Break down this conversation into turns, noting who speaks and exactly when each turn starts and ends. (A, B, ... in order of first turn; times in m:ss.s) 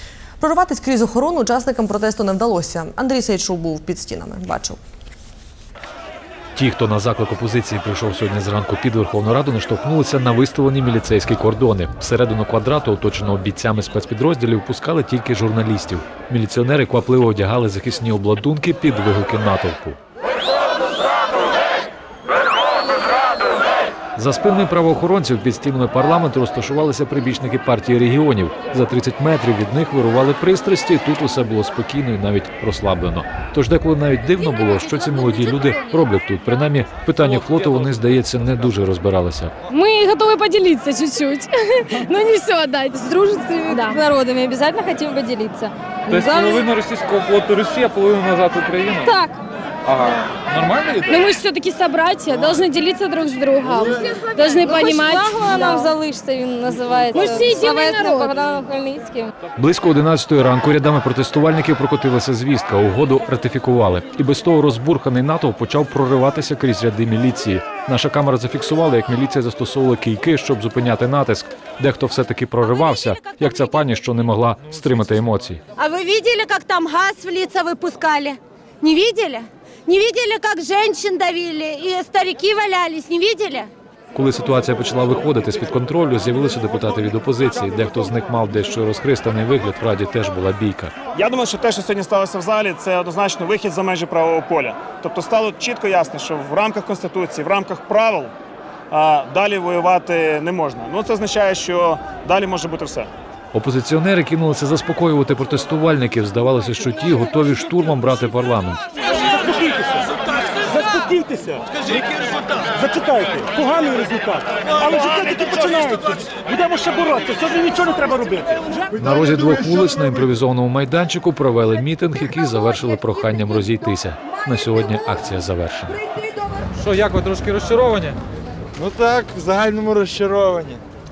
0:00.4-0:04.8 A
0:06.6-0:20.0 B
0:24.2-0:39.5 B
0:37.3-0:37.8 C
0:39.7-0:44.0 D
0:43.1-0:46.7 E
0:46.1-0:49.1 C
0:49.0-0:49.4 E
0:49.9-0:51.2 C
0:51.1-0:56.0 D
0:54.6-0:59.3 E
0:57.1-0:58.4 D
0:59.6-1:15.6 B
1:12.6-1:13.8 F
1:15.8-1:23.7 F
1:24.1-1:30.9 B
1:31.2-1:38.3 G
1:38.9-1:43.1 G
1:43.5-1:48.8 B
1:49.2-1:58.9 H
1:54.8-1:56.4 G
1:59.0-2:06.0 B
2:06.8-2:08.2 C
2:08.8-2:10.8 I